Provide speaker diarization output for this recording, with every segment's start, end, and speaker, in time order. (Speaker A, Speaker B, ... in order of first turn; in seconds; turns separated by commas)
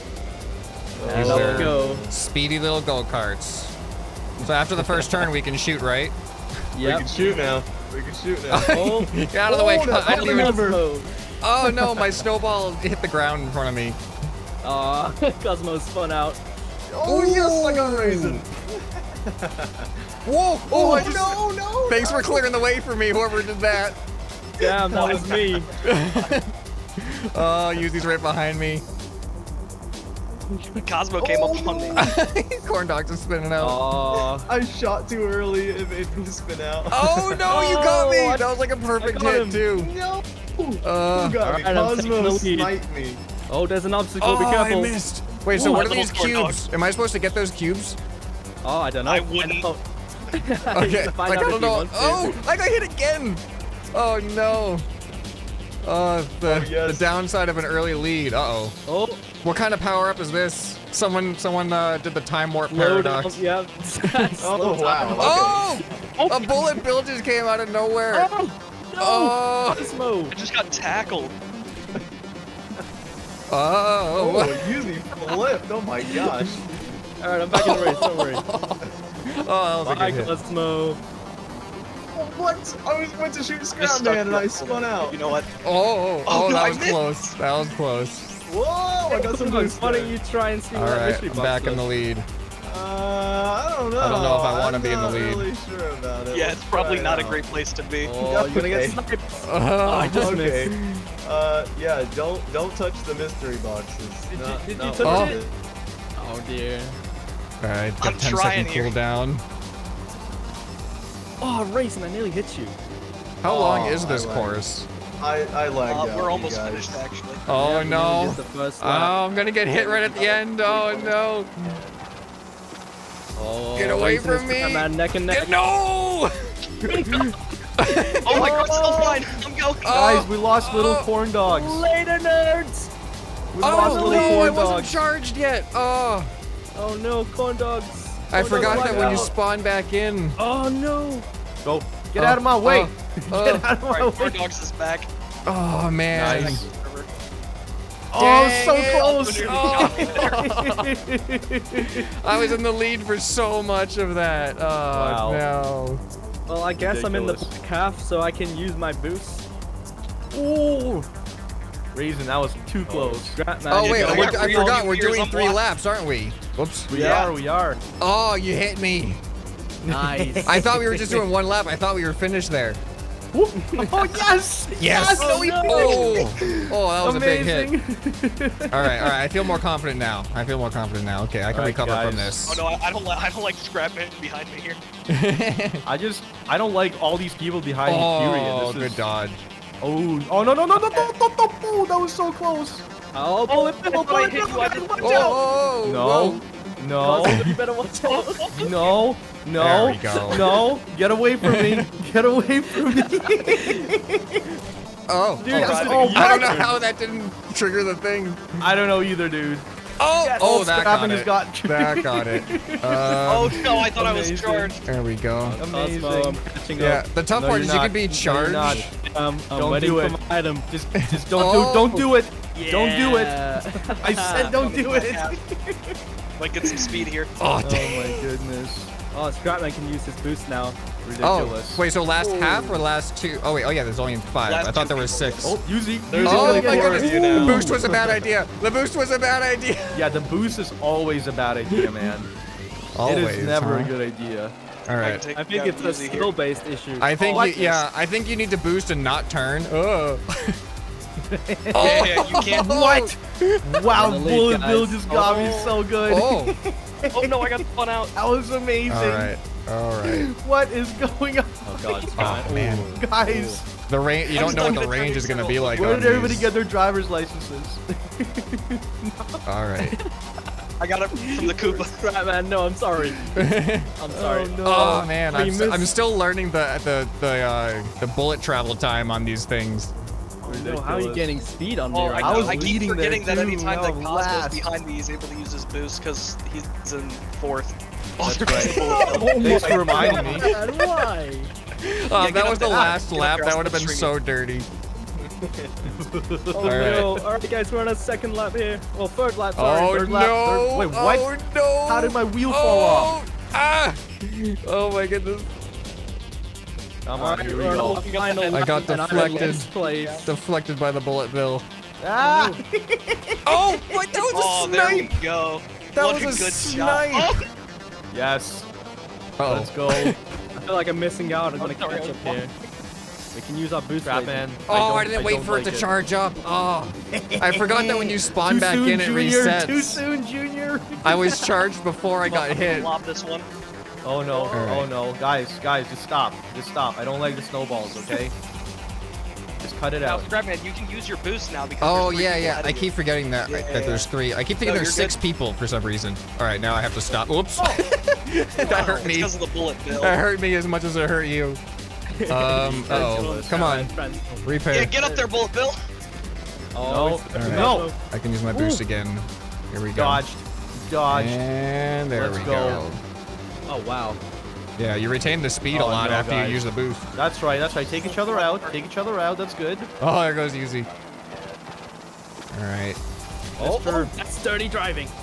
Speaker A: 1.0-2.1, Speaker B: 1.1-3.7, Speaker C: 1.1-2.1, Speaker D: 1.2-1.7, Speaker B: 4.4-6.2, Speaker C: 6.7-7.1, Speaker A: 6.8-8.8, Speaker B: 8.5-10.6, Speaker C: 8.7-9.2, Speaker A: 9.4-10.8, Speaker C: 10.1-11.1, Speaker B: 11.4-14.0, Speaker A: 11.8-12.1, Speaker C: 14.6-16.4, Speaker A: 16.9-19.9, Speaker B: 17.1-18.5, Speaker B: 20.3-24.0, Speaker A: 20.7-22.6, Speaker C: 24.6-25.7, Speaker A: 24.6-24.9, Speaker E: 24.9-25.6, Speaker B: 25.8-26.5, Speaker B: 27.0-28.8, Speaker E: 30.8-32.1, Speaker A: 31.2-32.1, Speaker B: 32.0-33.8, Speaker C: 33.6-34.5, Speaker A: 34.5-37.6, Speaker B: 36.9-39.9, Speaker C: 37.7-38.5, Speaker C: 39.0-39.6, Speaker A: 39.8-43.2, Speaker B: 40.8-41.4, Speaker C: 41.4-42.7, Speaker C: 43.5-45.0, Speaker B: 44.2-48.0, Speaker E: 45.5-46.6, Speaker C: 48.6-52.4, Speaker E: 49.0-49.7, Speaker B: 50.7-54.9, Speaker B: 55.8-58.8, Speaker A: 56.4-57.1, Speaker C: 58.9-59.2, Speaker B: 59.4-63.4, Speaker C: 62.7-65.2, Speaker A: 64.4-65.8, Speaker B: 65.2-68.3, Speaker E: 66.2-66.7, Speaker C: 68.1-70.4, Speaker B: 69.0-69.9, Speaker E: 70.3-71.3, Speaker B: 73.5-74.6, Speaker A: 74.1-76.6, Speaker C: 77.2-78.4, Speaker B: 77.5-80.3, Speaker C: 79.8-81.0, Speaker A: 82.1-85.2, Speaker E: 83.8-85.5, Speaker B: 85.6-88.3, Speaker E: 86.3-87.3, Speaker A: 88.5-90.2, Speaker C: 89.1-91.9, Speaker B: 90.8-92.3, Speaker A: 92.6-97.4, Speaker B: 94.0-95.5, Speaker E: 96.3-98.2, Speaker C: 98.0-100.7, Speaker A: 98.2-99.0, Speaker B: 99.3-101.0, Speaker A: 100.0-105.5, Speaker C: 104.3-105.4, Speaker B: 105.0-105.4, Speaker C: 106.2-107.0, Speaker B: 107.6-109.4, Speaker E: 108.0-109.0, Speaker C: 111.4-112.8, Speaker B: 113.4-114.9, Speaker A: 113.5-114.6, Speaker A: 115.2-117.0, Speaker E: 115.8-117.5, Speaker B: 117.5-121.8, Speaker C: 117.5-119.2, Speaker C: 119.8-121.1, Speaker C: 123.4-125.5, Speaker B: 123.8-128.5, Speaker C: 126.9-127.3, Speaker C: 127.9-129.2, Speaker E: 128.3-130.0, Speaker D: 128.3-128.9, Speaker B: 129.8-131.1, Speaker D: 129.9-131.8, Speaker C: 131.4-132.9, Speaker D: 133.5-135.0, Speaker B: 133.6-136.3, Speaker C: 133.7-134.6, Speaker C: 136.8-139.3, Speaker B: 138.3-140.3, Speaker A: 138.5-139.3, Speaker C: 140.4-141.3, Speaker D: 141.6-144.4, Speaker B: 142.2-143.7, Speaker E: 143.8-145.1, Speaker B: 145.5-146.7, Speaker E: 146.1-147.1, Speaker D: 146.1-146.7, Speaker D: 148.1-152.0, Speaker B: 148.2-150.9, Speaker E: 148.8-150.4, Speaker B: 151.7-156.0, Speaker D: 154.9-155.4, Speaker C: 156.5-159.4, Speaker D: 156.8-157.5, Speaker D: 160.3-161.1, Speaker D: 161.9-163.4, Speaker C: 162.9-164.8, Speaker B: 163.7-166.9, Speaker E: 163.8-165.6, Speaker D: 166.9-167.8, Speaker E: 166.9-167.3, Speaker B: 168.0-169.2, Speaker D: 169.8-171.0, Speaker C: 169.9-170.6, Speaker B: 170.4-172.8, Speaker D: 173.3-179.1, Speaker B: 174.8-177.7, Speaker C: 175.2-176.1, Speaker B: 178.7-182.7, Speaker D: 181.5-182.4, Speaker E: 182.5-184.8, Speaker B: 185.1-185.8, Speaker D: 185.8-189.0, Speaker B: 187.8-189.4, Speaker D: 189.8-192.9, Speaker C: 193.1-195.4, Speaker E: 193.5-195.4, Speaker D: 193.5-194.3, Speaker B: 195.0-196.4, Speaker D: 195.8-197.5, Speaker C: 197.0-198.7, Speaker E: 198.1-198.9, Speaker D: 198.6-204.4, Speaker B: 199.6-200.7, Speaker B: 201.4-201.8, Speaker C: 203.0-203.9, Speaker B: 205.1-208.6, Speaker C: 205.4-206.8, Speaker E: 205.5-206.5, Speaker D: 205.6-206.5, Speaker D: 208.6-209.7, Speaker B: 210.0-213.7, Speaker D: 210.2-214.7, Speaker E: 213.1-214.8, Speaker B: 214.8-215.6, Speaker D: 215.6-218.9, Speaker C: 215.6-217.0, Speaker B: 216.8-218.9, Speaker C: 218.7-220.7, Speaker D: 219.5-226.0, Speaker B: 221.0-222.0, Speaker C: 222.5-224.6, Speaker E: 224.4-225.4, Speaker E: 226.4-227.3, Speaker B: 227.4-228.3, Speaker D: 227.6-229.0, Speaker C: 229.1-230.8, Speaker D: 231.0-231.8, Speaker B: 231.2-235.6, Speaker C: 232.2-232.8, Speaker E: 234.4-235.6, Speaker D: 235.4-238.1, Speaker A: 236.1-237.9, Speaker B: 236.2-240.1, Speaker D: 239.9-242.3, Speaker B: 242.9-243.9, Speaker D: 243.0-244.6, Speaker B: 244.9-245.2, Speaker E: 245.0-246.3, Speaker C: 245.3-247.2, Speaker B: 247.0-250.6, Speaker E: 247.2-247.7, Speaker D: 247.2-247.6, Speaker D: 251.2-259.4, Speaker B: 251.7-253.2, Speaker E: 251.8-252.8, Speaker C: 253.9-255.5, Speaker E: 255.2-255.8, Speaker B: 256.1-256.6, Speaker E: 257.1-258.1, Speaker B: 258.9-260.3, Speaker D: 260.0-263.6, Speaker C: 261.7-263.6, Speaker B: 262.2-263.1, Speaker B: 263.9-266.5, Speaker E: 264.3-265.9, Speaker D: 264.4-264.6, Speaker D: 265.6-269.4, Speaker B: 269.4-270.0, Speaker E: 270.8-271.9, Speaker C: 271.1-273.3, Speaker B: 273.4-273.9, Speaker C: 274.0-274.6, Speaker D: 274.1-275.2, Speaker B: 274.6-279.9, Speaker C: 275.3-276.0, Speaker C: 280.4-282.8, Speaker D: 280.5-281.4, Speaker E: 281.9-290.5, Speaker D: 282.2-284.7, Speaker D: 288.2-290.5, Speaker A: 288.6-290.5, Speaker C: 288.8-291.5, Speaker B: 290.1-290.5, Speaker B: 291.8-294.7, Speaker E: 292.1-294.1, Speaker A: 295.2-295.9, Speaker D: 295.9-297.2, Speaker C: 296.5-299.9, Speaker B: 296.6-297.1, Speaker B: 299.6-305.5, Speaker D: 299.9-303.1, Speaker D: 307.0-308.1, Speaker C: 307.1-310.3, Speaker E: 307.6-310.3, Speaker B: 308.5-309.7, Speaker B: 310.2-311.6, Speaker D: 312.0-313.4, Speaker C: 312.2-312.5, Speaker B: 313.4-315.1, Speaker E: 314.3-317.5, Speaker B: 315.9-317.4, Speaker D: 318.1-318.7, Speaker B: 319.4-320.2, Speaker D: 319.4-320.2, Speaker C: 320.6-322.5, Speaker E: 321.6-322.4, Speaker C: 323.3-324.5, Speaker D: 324.0-325.8, Speaker B: 324.7-330.1, Speaker D: 327.1-331.5, Speaker B: 331.0-332.9, Speaker E: 332.3-333.5, Speaker D: 334.0-338.3, Speaker C: 334.4-334.6, Speaker B: 334.5-334.9, Speaker D: 339.6-340.3, Speaker E: 340.0-342.9, Speaker B: 341.8-349.3, Speaker E: 343.4-344.1, Speaker E: 344.6-345.2, Speaker E: 348.6-350.2, Speaker B: 350.0-351.6, Speaker C: 352.1-355.5, Speaker B: 352.3-353.9, Speaker D: 352.8-353.7, Speaker B: 354.4-354.9, Speaker E: 354.7-355.8, Speaker C: 356.8-358.0, Speaker D: 356.8-357.9, Speaker B: 357.3-360.2, Speaker D: 358.5-358.8, Speaker D: 359.9-361.4, Speaker B: 361.1-363.0, Speaker D: 362.1-362.9, Speaker C: 363.7-364.2, Speaker B: 364.8-367.1, Speaker D: 365.7-369.9, Speaker E: 367.9-368.9, Speaker B: 370.0-370.9, Speaker B: 372.5-373.0, Speaker D: 373.6-374.1, Speaker C: 373.6-375.1